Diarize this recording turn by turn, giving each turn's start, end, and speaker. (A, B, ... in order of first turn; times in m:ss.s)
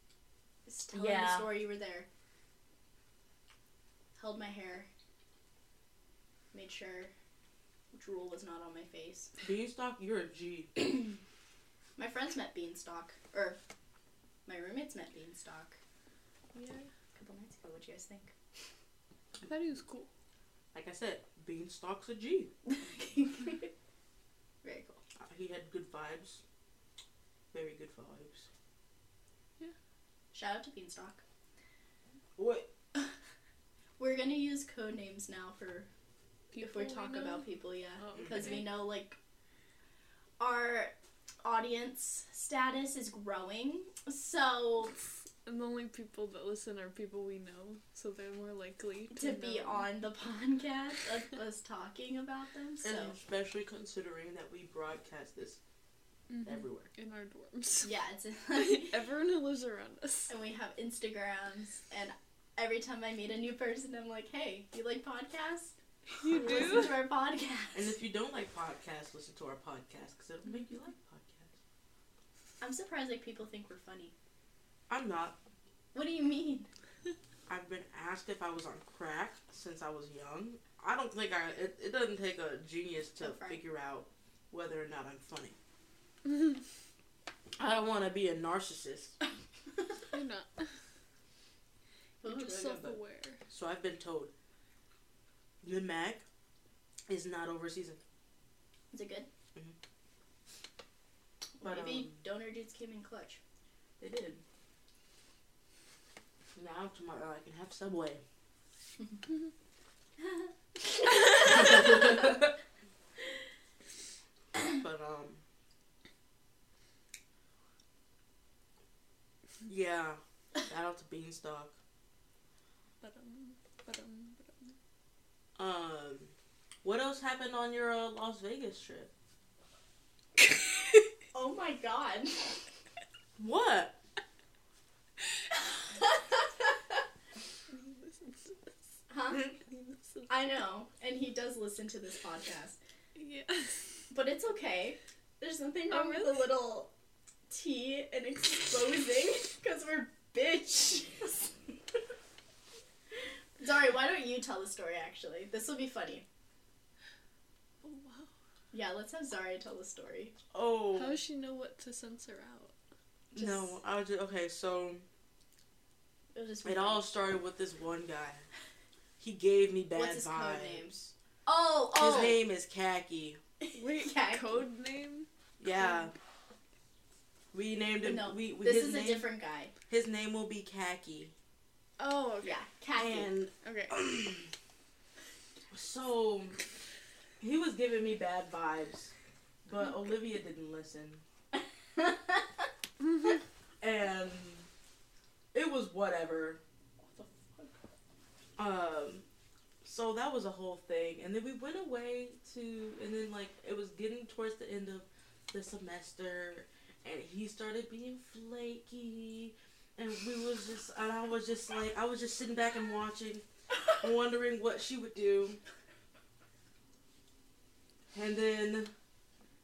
0:00.7-0:02.1 A
0:00.9-0:01.5 B
0:04.2-0:04.9 A
0:06.5-0:07.1 A
0:07.9-0:09.3 A
0:09.4-0:10.7 B
0:12.0-0:13.6 A
0:14.5-0:15.8 A
0:16.5-0:16.9 C
0:17.2-0:18.3 A
0:19.4-0:20.1 C
0:20.7-0:22.5 B
0:22.7-0:23.7 A
0:24.6-0:25.0 A
0:25.2-0:26.4 B
0:27.5-0:28.5 B
0:30.3-0:31.2 A
0:32.4-0:32.7 B
0:34.0-0:35.9 A
0:36.5-0:37.5 C
0:36.6-0:39.2 A
0:38.0-0:38.7 C
0:38.2-0:38.4 B
0:40.4-0:40.9 A
0:41.4-0:45.0 A
0:45.4-0:49.9 C
0:49.1-0:53.2 A
0:52.8-0:55.6 B
0:56.3-0:57.9 C
0:56.4-0:56.9 B
0:57.8-0:59.0 A
0:58.5-1:00.3 C
1:00.3-1:07.9 A
1:06.2-1:07.0 C
1:06.5-1:06.8 B
1:07.7-1:11.6 B
1:12.6-1:14.1 A
1:14.9-1:15.4 B
1:15.9-1:16.7 A
1:17.5-1:25.6 B
1:23.2-1:23.6 A
1:27.6-1:29.2 B
1:30.1-1:30.7 C
1:32.2-1:33.0 A
1:32.2-1:33.4 C
1:33.5-1:34.3 B
1:35.6-1:36.2 B
1:37.1-1:38.0 B
1:38.9-1:39.3 A
1:41.6-1:43.4 A
1:41.6-1:42.2 B
1:44.0-1:44.4 B
1:46.6-1:48.2 B
1:51.1-1:52.0 A
1:51.4-1:52.5 B
1:54.7-1:55.4 B
1:59.6-2:01.7 B
2:03.0-2:04.8 C
2:05.6-2:06.3 B
2:06.8-2:09.1 B
2:11.3-2:12.6 A
2:13.4-2:14.0 B
2:15.9-2:16.8 A
2:17.7-2:18.7 C
2:19.1-2:19.5 A
2:19.5-2:20.3 C
2:20.3-2:22.8 A
2:23.2-2:23.9 C
2:24.1-2:26.9 A
2:25.9-2:26.5 C
2:27.5-2:31.5 A
2:33.6-2:36.2 A
2:37.8-2:38.3 C
2:38.7-2:40.4 A
2:40.5-2:41.2 B
2:40.9-2:42.7 C
2:43.3-2:45.1 B
2:46.3-2:47.1 A
2:46.6-2:48.4 B
2:49.2-2:51.1 B
2:50.0-2:50.9 A
2:51.5-2:52.4 A
2:51.9-2:53.4 B
2:53.6-2:54.6 A
2:53.7-2:55.3 C
2:55.6-2:56.1 B
2:57.5-2:59.3 B
2:58.0-2:59.7 A
2:59.9-3:01.3 B
3:02.0-3:02.6 C
3:02.4-3:03.3 A
3:03.0-3:04.5 B
3:03.6-3:04.0 C
3:05.7-3:06.6 B
3:07.4-3:09.1 B
3:09.7-3:11.2 B
3:12.0-3:12.4 A
3:13.8-3:14.7 B
3:15.5-3:16.6 B
3:17.1-3:17.7 A
3:18.6-3:19.2 B
3:19.8-3:33.4 B
3:34.0-3:35.6 B
3:38.1-3:38.9 B